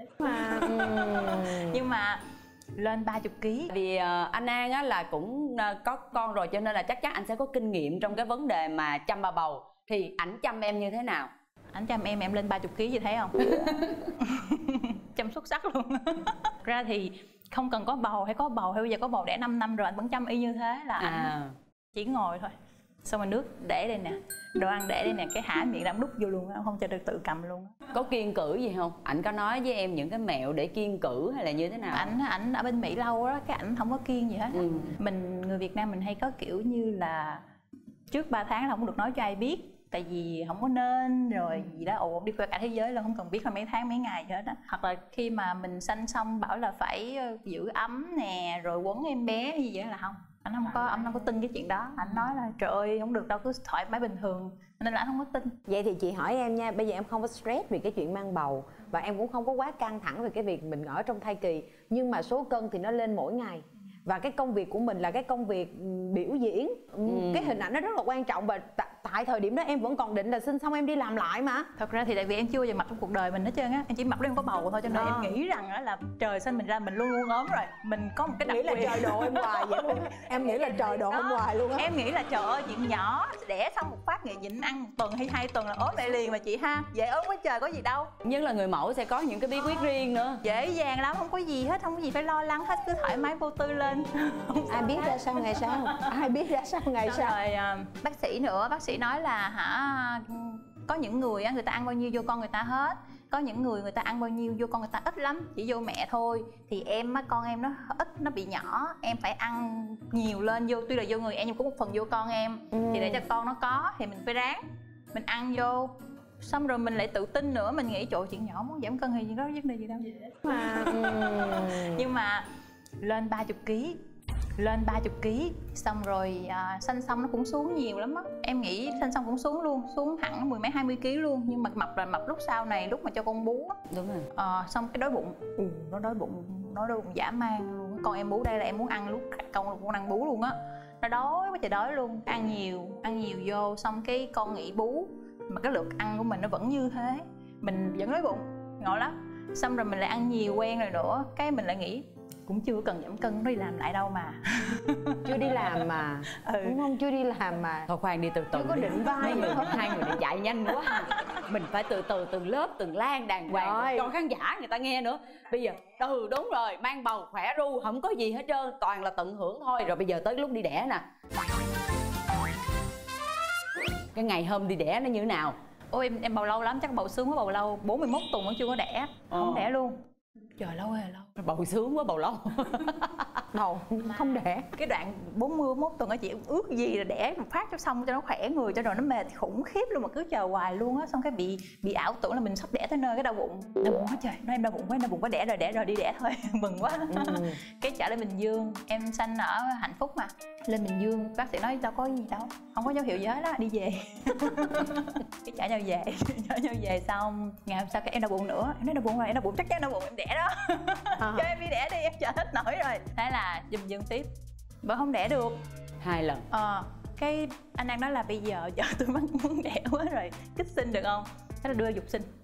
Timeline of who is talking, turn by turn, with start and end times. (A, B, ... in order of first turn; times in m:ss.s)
0:00.2-0:01.8 A
0:01.3-0:02.2 B
0:02.8-0:03.7 B
0:03.7-0:11.3 C
0:11.7-0:21.3 B
0:13.5-0:13.9 C
0:21.0-0:21.5 C
0:21.9-0:22.5 B
0:23.0-0:27.8 B
0:27.9-0:32.1 C
0:31.9-0:37.4 B
0:34.6-0:34.9 C
0:38.1-0:55.6 B
0:55.7-1:11.7 A
1:07.1-1:07.6 C
1:11.8-1:28.1 B
1:14.9-1:15.4 A
1:18.4-1:21.9 A
1:28.2-1:30.4 C
1:30.4-1:36.1 B
1:34.7-1:37.4 A
1:37.0-2:00.3 B
1:52.7-1:53.2 A
2:00.4-2:02.1 A
2:01.6-2:02.5 B
2:03.0-2:04.0 B
2:04.6-2:13.8 B
2:13.9-2:14.3 C
2:14.3-2:35.7 B
2:35.2-2:37.9 A
2:36.4-2:36.8 B
2:37.9-2:51.0 C
2:38.5-2:40.0 A
2:38.6-2:40.2 B
2:40.8-2:41.2 B
2:43.5-2:44.1 A
2:54.1-2:55.6 C
2:55.9-3:00.0 B
2:59.3-2:59.7 C
3:00.6-3:01.3 B
3:01.4-3:03.4 C
3:03.5-3:04.7 A
3:04.0-3:34.3 B
3:17.1-3:17.6 A
3:31.2-3:31.5 A
3:34.8-3:35.6 B
3:36.0-3:36.4 C
3:36.5-3:42.3 B